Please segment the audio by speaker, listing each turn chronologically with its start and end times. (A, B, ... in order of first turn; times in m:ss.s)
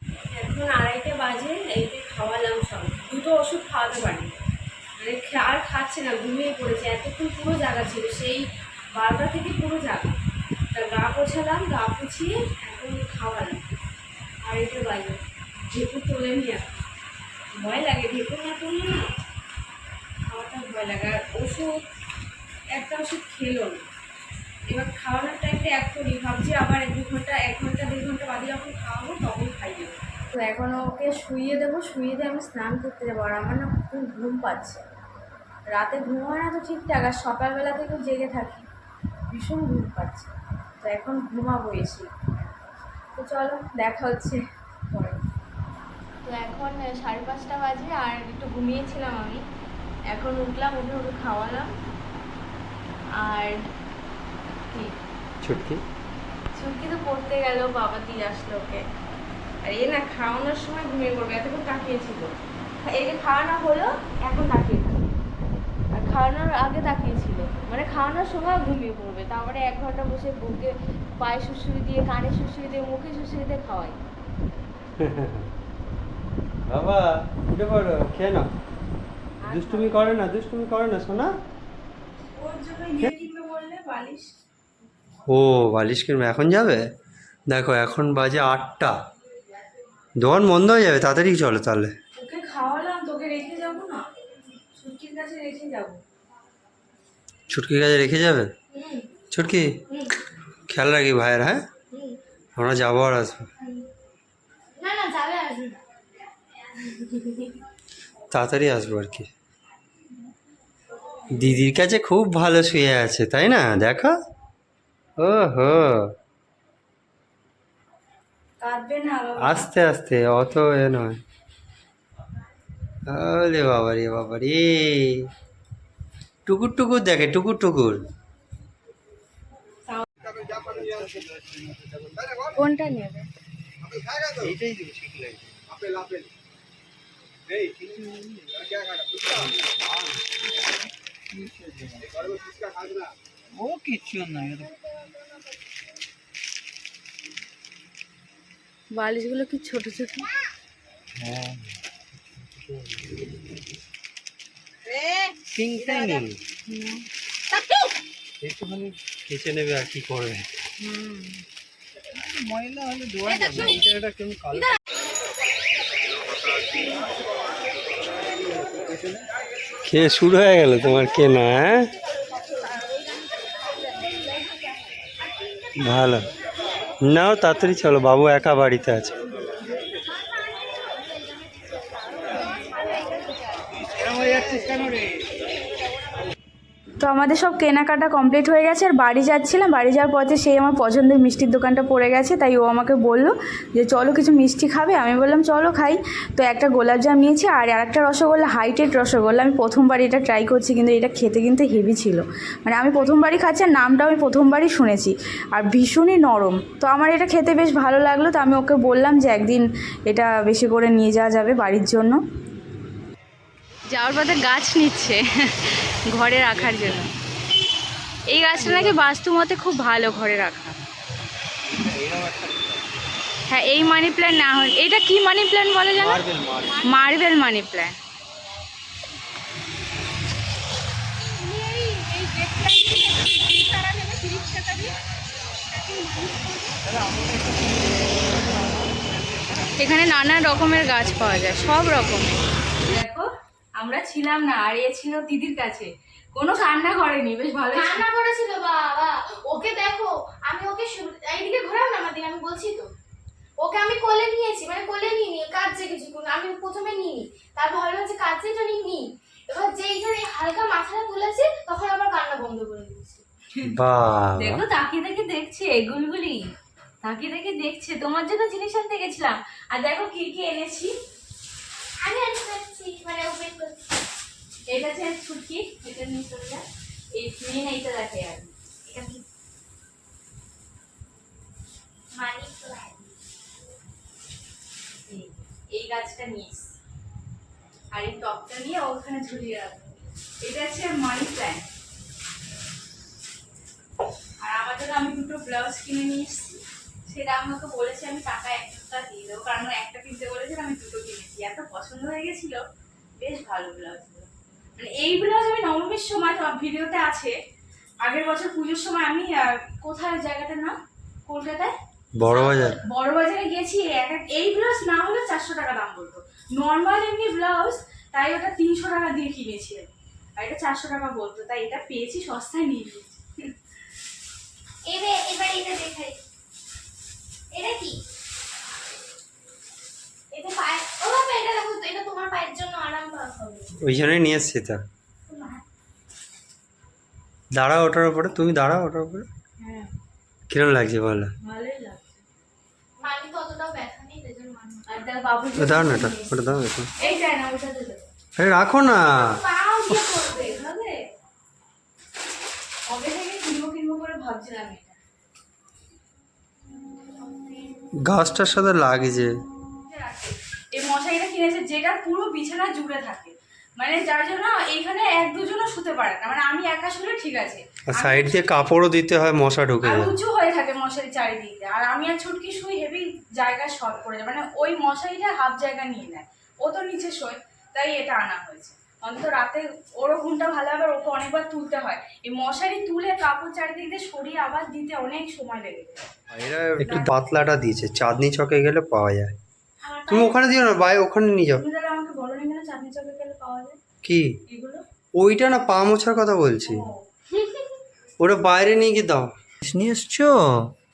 0:00.3-0:04.4 A
0:05.0-0:10.2 A
0:10.7-0:13.6 A
0:14.4-0:16.7 A
0:17.5-0:19.0 A
0:20.2-0:21.8 A
0:22.7-0:23.9 A
0:24.7-0:34.8 A
0:35.7-0:38.7 A
0:39.3-0:42.5 A
0:43.2-0:45.2 A
0:46.2-0:49.4 A
0:50.1-0:51.7 A
0:53.2-0:53.6 A
0:54.7-0:55.0 A
0:55.4-0:55.8 B
0:56.6-0:58.8 A
0:59.6-1:02.3 A
1:02.9-1:05.1 A
1:05.9-1:14.0 A
1:15.0-1:15.5 B
1:16.7-1:18.5 B
1:19.4-1:20.1 A
1:19.4-1:21.3 B
1:22.4-1:24.3 A
1:25.3-1:26.8 B
1:27.5-1:29.0 B
1:30.2-1:31.9 B
1:32.2-1:34.1 A
1:34.8-1:36.0 A
1:37.5-1:38.5 B
1:39.3-1:39.7 B
1:40.7-1:41.6 B
1:42.6-1:43.5 B
1:44.8-1:45.8 C
1:46.7-1:47.6 C
1:48.3-1:49.3 B
1:51.3-1:54.2 B
1:55.2-1:56.1 B
1:58.6-1:59.7 A
1:59.4-2:01.2 B
2:03.1-2:05.3 B
2:06.5-2:08.0 B
2:12.6-2:13.3 A
2:14.3-2:15.6 B
2:18.0-2:18.3 A
2:21.4-2:22.2 D
2:23.6-2:24.7 D
2:28.9-2:30.3 A
2:31.2-2:31.6 B
2:32.6-2:33.2 B
2:35.5-2:36.4 B
2:36.7-2:37.0 A
2:38.4-2:40.5 B
2:42.4-2:43.1 D
2:43.3-2:44.7 B
2:49.9-2:51.9 B
2:55.8-2:56.2 B
2:57.0-2:59.2 B
3:02.7-3:03.0 C
3:07.0-3:32.2 A
3:33.9-3:37.1 A
3:38.3-3:40.8 A
3:38.6-3:38.9 B
3:42.0-3:42.4 B
3:43.5-3:46.2 A
3:46.0-3:46.8 B
3:46.8-3:48.0 A
3:51.6-3:51.9 C
3:51.7-3:54.9 A
3:55.8-3:56.7 A
3:59.8-4:03.3 A
4:03.8-4:08.0 A
4:07.7-4:12.9 C
4:13.6-4:23.2 C
4:23.6-4:24.6 B
4:24.4-4:26.4 A
4:27.0-4:30.9 A
4:32.0-4:33.8 C
4:34.7-4:38.5 A
4:38.9-4:39.2 C
4:42.1-4:43.1 C
4:45.1-4:46.8 A
4:47.9-4:51.6 A
4:54.4-5:02.6 A
5:03.2-5:07.4 A
5:08.0-5:23.3 A
5:12.2-5:12.8 B
5:24.9-5:26.2 C
5:27.5-5:28.0 C
5:30.3-5:33.7 C
5:33.8-5:34.8 B
5:35.3-5:35.6 C
5:37.6-5:39.3 B
5:39.6-5:39.9 A
5:40.5-5:41.3 B
5:41.4-5:42.2 A
5:43.0-5:45.0 C
5:44.9-5:48.1 A
5:45.6-5:46.9 B
5:48.4-5:49.4 B
5:49.3-5:51.0 A
5:52.9-5:55.0 A
5:58.0-5:59.3 B
5:59.9-6:08.7 A
6:08.0-6:10.1 B
6:09.8-6:26.0 A
6:26.3-6:29.3 B
6:26.8-6:27.1 A
6:29.8-6:30.3 A
6:30.1-6:31.6 B
6:31.6-6:33.8 A
6:34.0-6:34.4 B
6:34.5-6:34.8 A
6:35.2-6:36.8 B
6:36.6-6:37.0 A
6:37.3-6:37.7 C
6:38.2-6:40.7 B